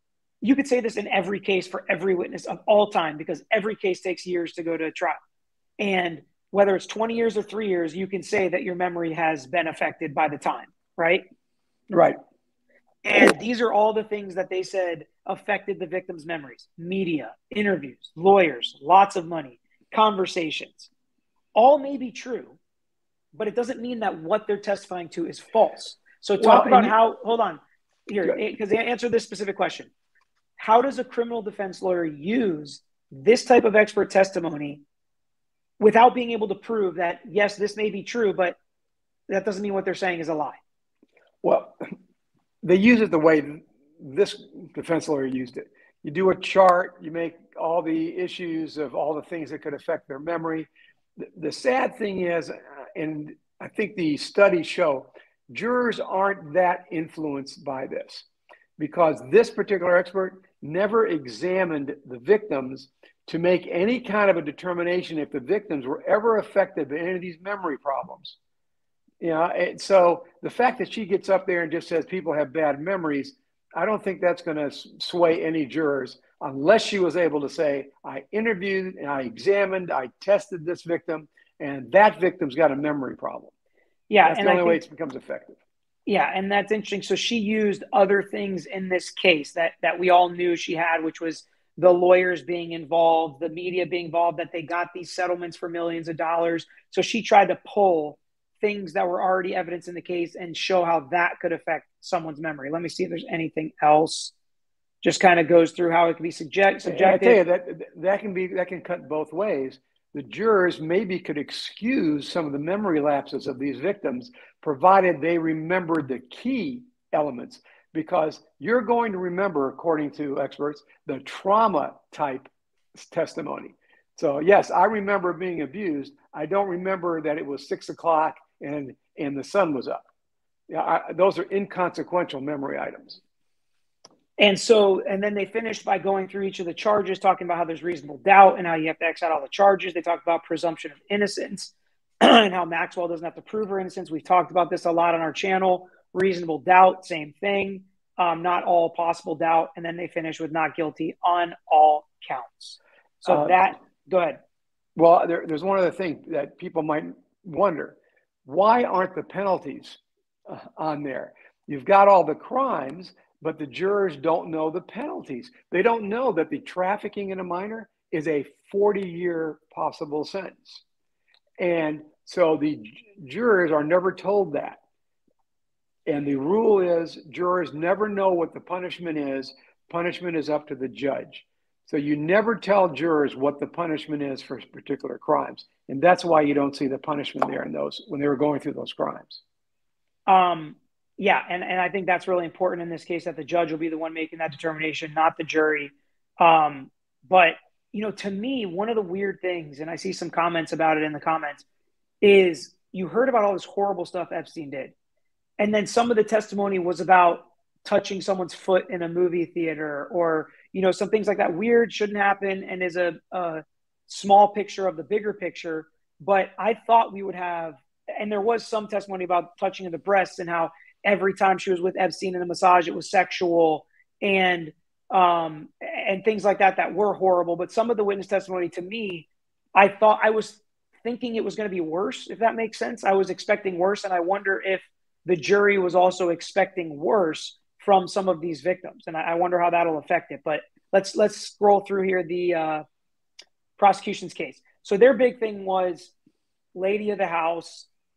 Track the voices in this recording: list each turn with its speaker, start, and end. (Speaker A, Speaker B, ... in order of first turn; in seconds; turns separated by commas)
Speaker A: 0.4-5.2, Speaker A: 5.8-11.2, Speaker B: 11.9-12.2, Speaker A: 13.0-20.9, Speaker A: 21.5-22.6, Speaker A: 23.3-29.9, Speaker B: 26.4-26.9, Speaker A: 30.6-34.8, Speaker A: 35.8-38.6, Speaker A: 39.3-40.6, Speaker B: 41.4-41.8, Speaker B: 42.6-58.2, Speaker B: 58.8-68.4, Speaker B: 69.2-83.5, Speaker A: 84.1-84.8, Speaker B: 84.2-85.6, Speaker A: 86.0-104.3, Speaker A: 105.0-107.4, Speaker B: 106.8-130.0, Speaker B: 130.7-133.2, Speaker A: 134.4-154.4, Speaker B: 153.2-153.6, Speaker B: 154.9-170.8, Speaker B: 171.6-174.8, Speaker B: 176.1-189.4, Speaker A: 190.3-201.6, Speaker A: 202.2-204.9, Speaker A: 205.6-242.8, Speaker A: 243.8-246.1, Speaker A: 246.7-247.9